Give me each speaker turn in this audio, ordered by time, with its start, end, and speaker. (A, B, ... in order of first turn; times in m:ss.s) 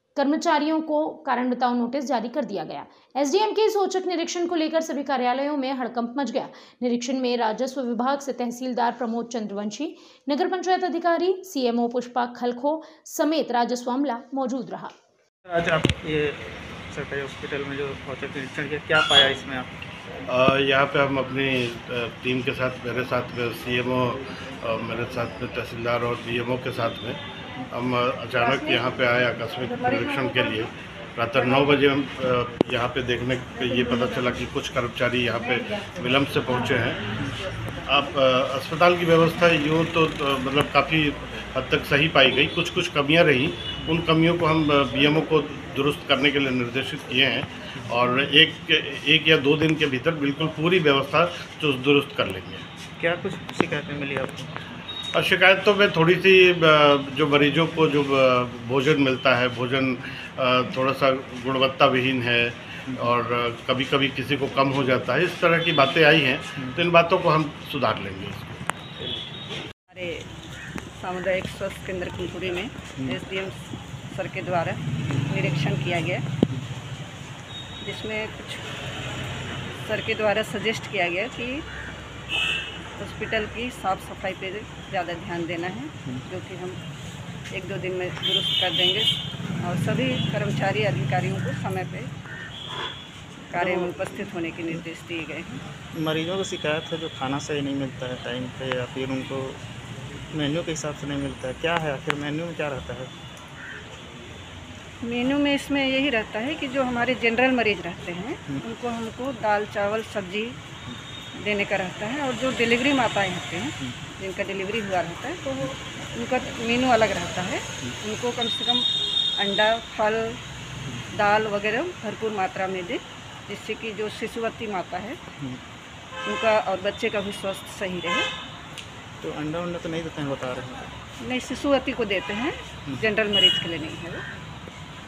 0:00.2-0:14.9 A
0:15.5-0:19.8 B
0:20.3-0:27.2 C
0:27.7-0:37.1 C
0:28.4-0:28.8 D
0:29.7-0:30.6 D
0:37.8-0:52.6 C
0:53.0-0:54.6 B
0:55.1-1:08.6 C
1:09.9-1:10.3 D
1:11.0-1:13.6 D
1:14.1-1:16.2 D
1:17.8-1:18.6 D
1:19.8-1:21.6 D
1:23.0-1:26.8 D
1:27.5-1:29.1 D
1:29.6-1:32.1 D
1:33.5-1:35.6 D
1:33.6-1:33.9 B
1:35.9-1:39.6 B
1:40.3-1:43.1 B
1:45.0-1:50.5 D
1:51.4-1:58.8 D
1:59.4-2:00.4 D
2:01.1-2:05.2 D
2:06.2-2:08.3 D
2:09.2-2:10.9 B
2:11.2-2:14.2 D